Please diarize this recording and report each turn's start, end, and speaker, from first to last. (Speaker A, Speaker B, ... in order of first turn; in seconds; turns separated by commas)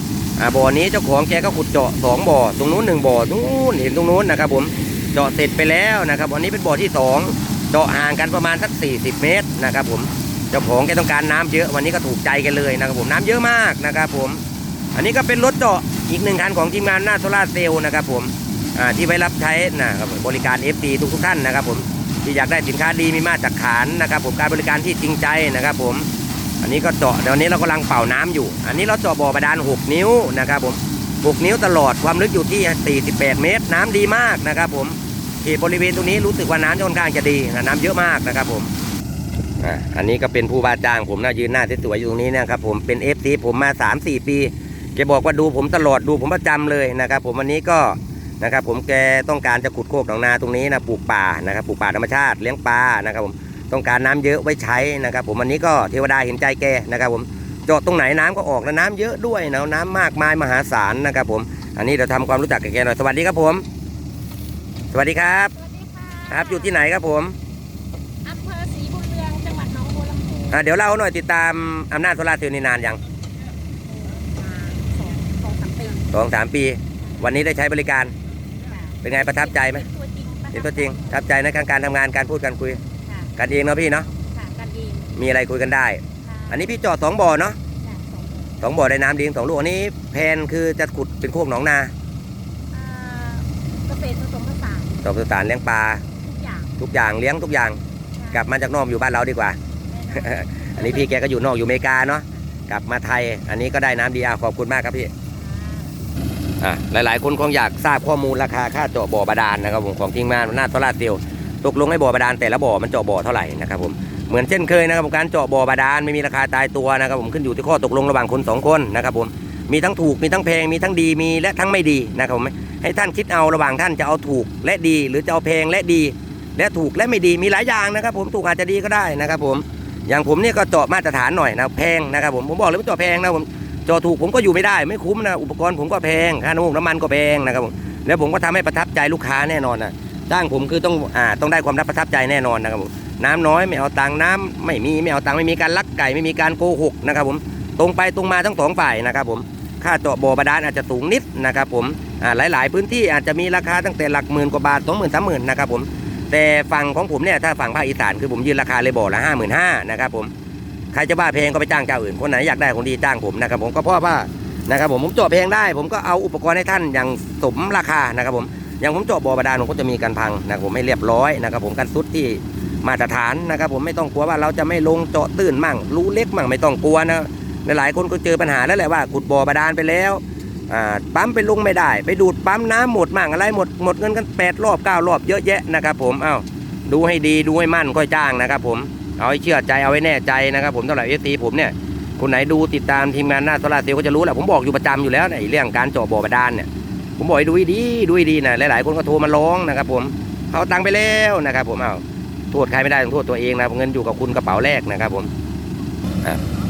Speaker A: 0.4-14.4, Speaker A: 14.9-26.1, Speaker A: 26.6-38.7, Speaker A: 39.6-63.6, Speaker A: 64.9-65.5, Speaker B: 65.5-66.8, Speaker A: 66.3-67.3, Speaker B: 68.2-70.6, Speaker A: 70.5-73.0, Speaker B: 73.9-76.1, Speaker A: 76.1-78.1, Speaker B: 78.6-81.2, Speaker A: 79.0-79.9, Speaker A: 80.5-82.8, Speaker B: 83.0-83.3, Speaker A: 83.4-84.1, Speaker B: 84.1-85.1, Speaker A: 85.1-87.6, Speaker B: 86.2-86.8, Speaker B: 87.8-88.6, Speaker A: 88.6-91.9, Speaker B: 92.7-95.1, Speaker A: 95.0-96.0, Speaker B: 96.2-96.7, Speaker A: 96.8-97.8, Speaker B: 98.2-98.5, Speaker A: 98.3-99.6, Speaker B: 99.9-101.1, Speaker A: 100.1-105.1, Speaker B: 105.3-106.0, Speaker A: 106.6-160.3, Speaker A: 160.9-205.3